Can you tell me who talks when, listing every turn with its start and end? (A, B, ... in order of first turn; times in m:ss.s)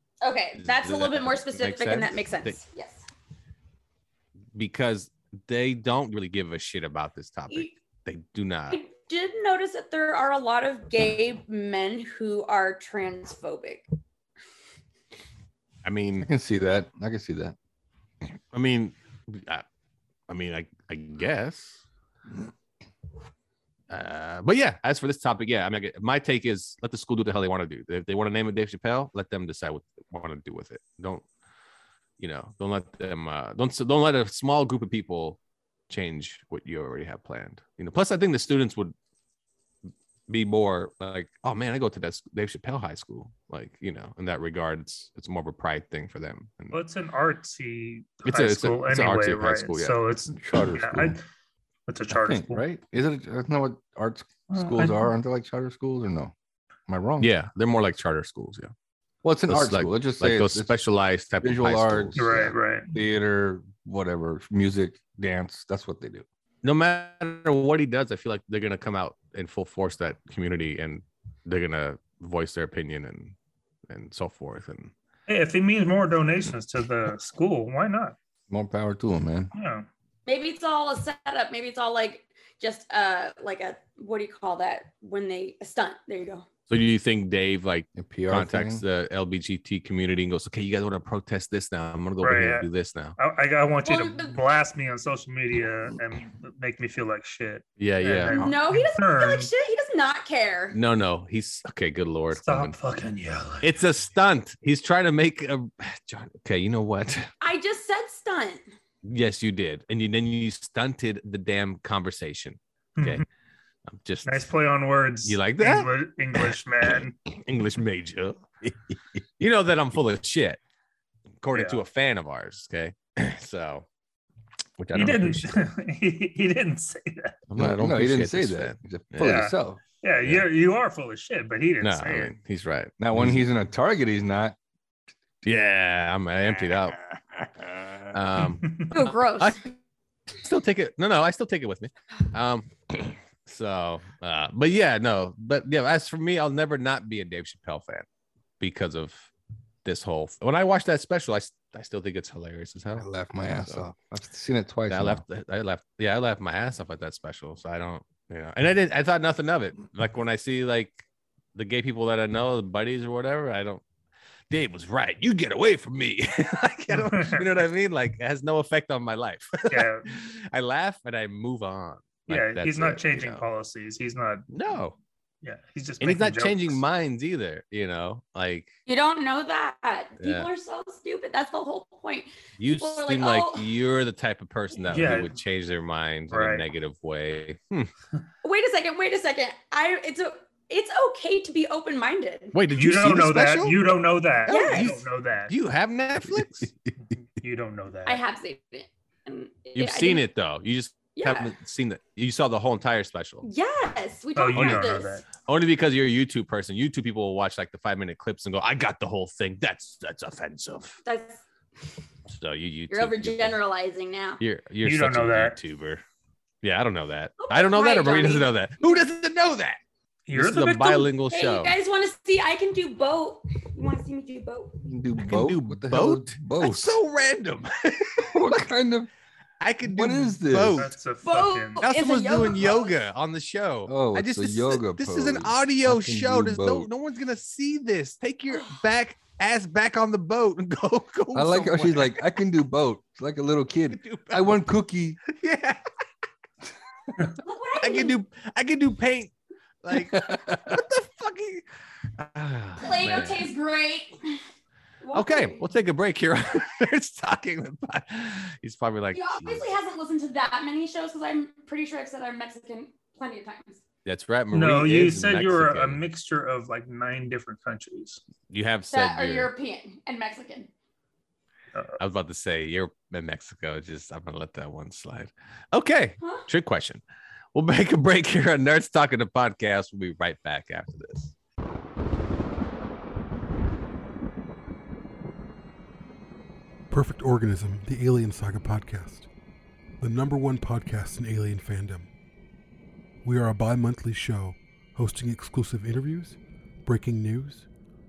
0:00.2-0:03.0 A
0:00.6-0:02.6 B
0:04.5-0:08.8 B
0:08.7-0:13.8 A
0:15.8-0:16.3 B
0:16.2-0:17.6 C
0:18.5-0:19.6 B
0:20.3-0:21.8 B
0:23.9-0:31.2 B
0:32.2-0:38.9 B
0:40.3-0:46.8 B
0:46.7-0:51.2 D
0:48.2-0:50.0 B
0:50.4-0:51.2 C
0:51.9-0:52.6 D
0:52.1-0:56.3 C
0:54.5-0:55.1 D
0:56.9-0:57.3 C
0:57.2-0:58.7 B
0:59.2-1:00.7 C
0:59.5-1:02.5 B
1:01.4-1:06.2 C
1:02.2-1:02.9 D
1:06.6-1:13.3 B
1:13.9-1:14.9 B
1:15.3-1:18.1 D
1:18.5-1:19.5 C
1:19.5-1:19.9 D
1:20.2-1:26.4 A
1:26.7-1:33.2 B
1:28.0-1:28.8 C
1:32.2-1:39.5 D
1:33.8-1:34.4 A
1:37.8-1:38.5 B
1:38.3-1:40.8 A
1:40.7-1:42.7 B
1:42.4-1:43.7 D
1:43.6-1:47.3 B
1:47.4-1:48.6 A
1:49.0-1:53.2 B
1:53.0-1:53.2 D
1:53.9-1:54.5 B
1:54.2-1:57.1 D
1:55.2-1:56.5 B
1:57.3-1:58.8 B
1:59.4-2:00.6 B
2:01.4-2:03.8 B
2:01.5-2:01.8 D
2:04.8-2:05.6 B
2:04.9-2:07.4 D
2:07.5-2:09.4 B
2:07.6-2:09.8 C
2:09.2-2:12.3 D
2:11.8-2:13.4 B
2:13.0-2:14.6 C
2:15.4-2:17.0 B
2:18.1-2:19.7 B
2:18.6-2:18.9 D
2:18.9-2:19.6 A
2:20.3-2:28.0 B
2:28.6-2:29.3 B
2:29.8-2:33.8 B
2:33.0-2:35.2 C
2:34.9-2:41.0 B
2:41.5-2:43.8 B
2:44.5-2:53.4 B
2:46.9-2:47.5 D
2:49.7-2:50.1 D
2:52.3-2:54.4 D
2:54.5-2:55.0 B
2:55.4-2:56.8 D
2:56.0-2:58.7 B
2:58.9-3:03.6 A
3:00.2-3:00.5 B
3:02.6-3:07.9 B
3:04.9-3:05.3 D
3:06.3-3:06.6 D
3:08.4-3:12.5 A
3:12.5-3:13.9 B
3:12.7-3:15.5 D
3:14.4-3:16.9 B
3:14.5-3:14.9 A
3:17.4-3:18.2 D
3:18.0-3:20.2 A
3:19.8-3:23.4 B
3:21.2-3:21.5 A
3:23.4-3:25.1 A
3:24.4-3:25.2 D
3:24.5-3:31.0 B
3:31.0-3:31.4 A
3:32.3-3:33.6 B
3:32.9-3:34.4 A
3:34.4-3:36.0 B
3:34.8-3:35.6 D
3:36.6-3:39.8 B
3:37.4-3:38.5 A
3:40.3-3:41.1 D
3:40.3-3:41.7 B
3:41.3-3:44.8 A
3:44.8-3:47.0 C
3:45.2-3:48.4 B
3:48.2-3:49.1 C
3:49.6-3:50.9 B
3:49.8-3:50.9 C
3:50.6-3:51.8 D
3:51.2-3:52.9 A
3:51.8-4:02.2 B
3:53.9-3:56.9 C
4:01.3-4:05.2 C
4:03.9-4:04.6 B
4:05.3-4:05.8 B
4:07.4-4:08.1 A
4:07.8-4:11.6 B
4:09.9-4:10.8 C
4:12.2-4:13.5 B
4:12.8-4:14.4 A
4:15.0-4:15.6 A
4:15.1-4:19.6 B
4:19.1-4:23.8 A
4:24.0-4:26.0 B
4:24.5-4:28.2 D
4:28.5-4:29.5 B
4:28.9-4:30.7 A
4:32.0-4:37.0 B
4:37.5-4:41.3 B
4:46.9-4:49.3 E
4:50.0-4:52.1 E
4:53.2-4:57.7 E